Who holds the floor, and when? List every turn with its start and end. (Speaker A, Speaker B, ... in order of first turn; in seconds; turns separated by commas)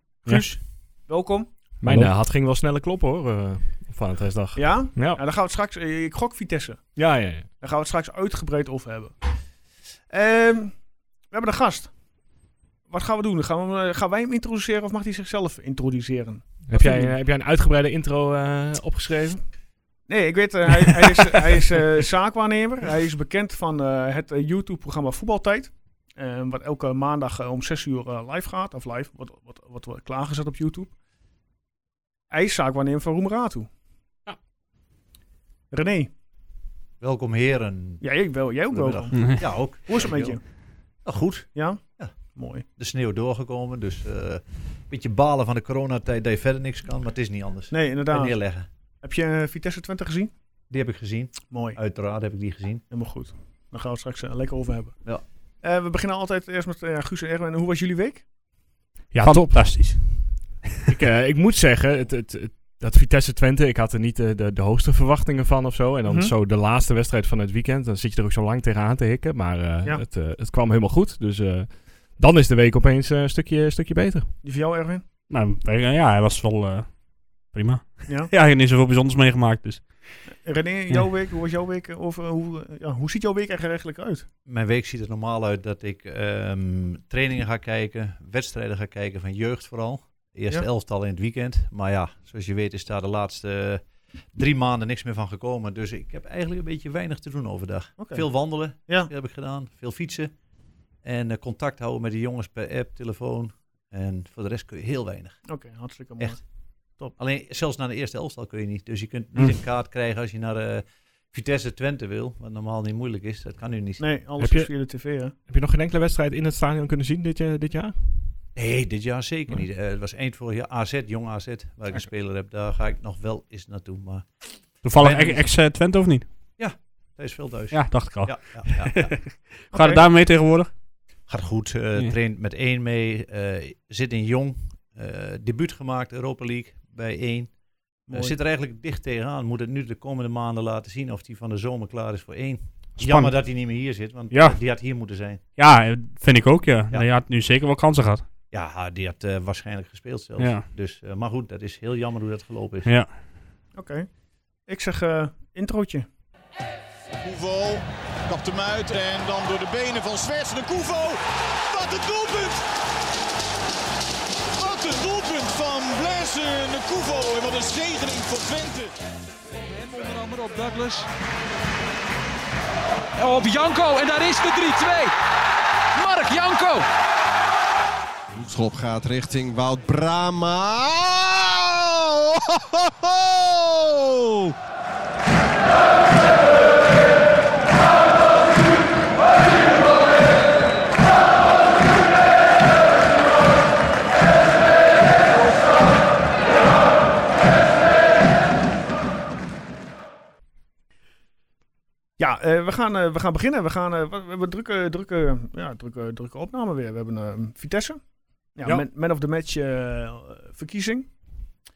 Speaker A: 0.2-1.5, Speaker B: 1.8-5.2, Speaker A: 4.6-9.4, Speaker B: 7.0-7.5, Speaker A: 10.1-12.0, Speaker A: 12.9-17.2, Speaker B: 16.7-19.5, Speaker A: 20.1-30.9, Speaker A: 32.3-33.7, Speaker A: 35.7-36.1, Speaker C: 37.0-40.5, Speaker A: 38.0-40.4, Speaker C: 41.0-42.1, Speaker A: 41.5-42.7, Speaker C: 42.7-48.7, Speaker A: 47.7-48.5, Speaker A: 49.0-50.3, Speaker C: 50.7-52.8, Speaker A: 51.5-51.8, Speaker A: 52.9-58.3, Speaker D: 59.1-60.6, Speaker B: 59.2-60.2, Speaker B: 60.9-74.3, Speaker A: 66.1-66.3, Speaker A: 74.4-75.0, Speaker D: 75.3-80.3, Speaker A: 80.4-84.3, Speaker C: 84.5-100.3, Speaker A: 98.0-99.1, Speaker C: 101.0-105.5, Speaker A: 105.5-106.4, Speaker C: 106.2-106.5, Speaker C: 107.1-114.1, Speaker A: 114.0-115.3, Speaker B: 114.4-114.7, Speaker B: 115.5-118.0, Speaker C: 118.5-125.4, Speaker D: 124.8-126.3, Speaker C: 126.6-129.3, Speaker D: 127.7-130.7, Speaker A: 129.7-130.0, Speaker C: 131.3-145.4, Speaker A: 138.1-138.4, Speaker D: 143.0-143.7, Speaker D: 144.3-144.6, Speaker D: 145.6-148.3, Speaker C: 148.5-152.9, Speaker D: 150.4-150.7, Speaker D: 152.8-153.2, Speaker A: 153.8-154.1, Speaker A: 154.6-156.1, Speaker E: 157.2-162.6, Speaker E: 164.6-169.0, Speaker F: 169.6-171.1, Speaker F: 173.2-175.2, Speaker F: 175.9-176.9, Speaker E: 178.3-184.5, Speaker A: 202.2-211.1